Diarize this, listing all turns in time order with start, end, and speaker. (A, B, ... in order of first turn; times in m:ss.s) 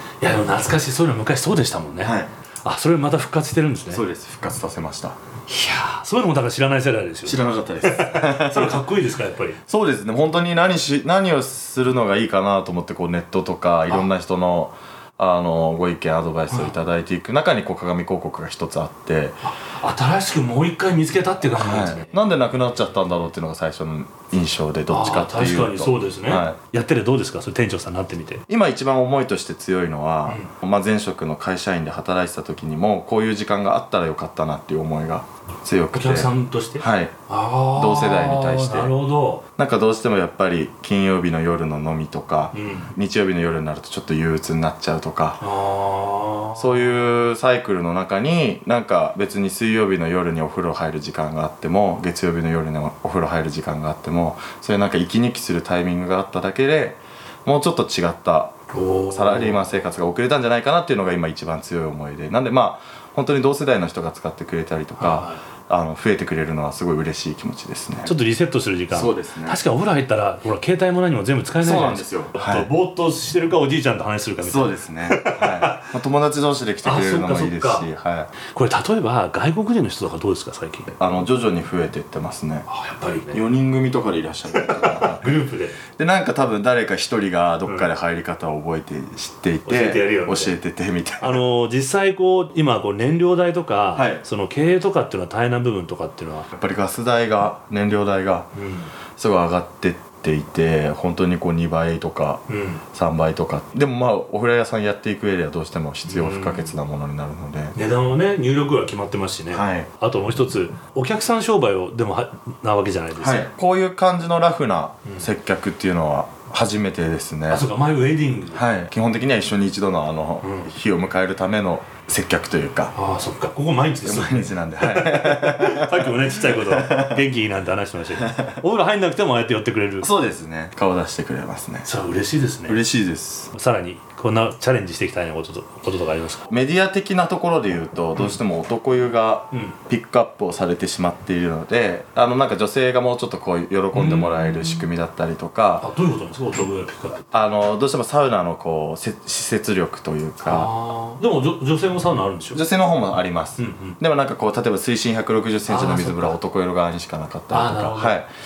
0:00.2-0:04.0 A
0:02.0-0:02.3 B
0:03.9-0:05.2 B
0:05.5-0:09.6 A
0:07.2-0:08.8 B
0:09.7-0:19.4 B
0:16.5-0:16.7 A
0:19.4-0:22.2 A
0:21.5-0:26.6 B
0:24.9-0:28.4 A
0:28.5-0:37.2 B
0:35.9-0:39.4 A
0:37.7-0:39.0 B
0:39.6-0:45.4 B
0:42.5-0:42.9 A
0:45.4-0:47.0 A
0:46.6-1:08.1 B
0:58.7-0:59.6 A
1:05.0-1:05.4 A
1:08.0-1:15.9 A
1:08.9-1:09.6 B
1:11.6-1:12.7 B
1:14.4-1:18.3 B
1:16.8-1:17.9 A
1:18.4-1:20.9 A
1:21.0-1:22.7 B
1:22.7-1:23.4 A
1:23.3-1:31.4 B
1:24.5-1:25.8 A
1:29.6-1:30.6 A
1:31.2-1:36.5 A
1:33.9-1:34.2 B
1:36.5-1:38.5 B
1:38.5-1:38.9 A
1:39.2-1:47.7 B
1:42.5-1:42.8 A
1:46.0-1:46.7 A
1:47.7-1:53.5 A
1:49.5-1:49.9 B
1:53.2-1:57.7 B
1:57.5-1:58.6 A
1:58.5-2:02.9 B
2:00.4-2:00.7 A
2:02.9-2:10.1 A
2:04.0-2:07.2 B
2:08.2-2:08.6 B
2:10.0-2:11.9 B
2:11.8-2:12.8 A
2:12.6-2:13.5 B
2:13.5-2:16.5 A
2:16.5-2:25.9 B
2:23.9-2:24.8 A
2:25.8-2:27.3 A
2:27.3-2:30.7 B
2:30.4-2:32.6 A
2:32.5-2:38.3 B
2:33.6-2:34.0 A
2:35.7-2:36.4 A
2:37.5-2:38.2 A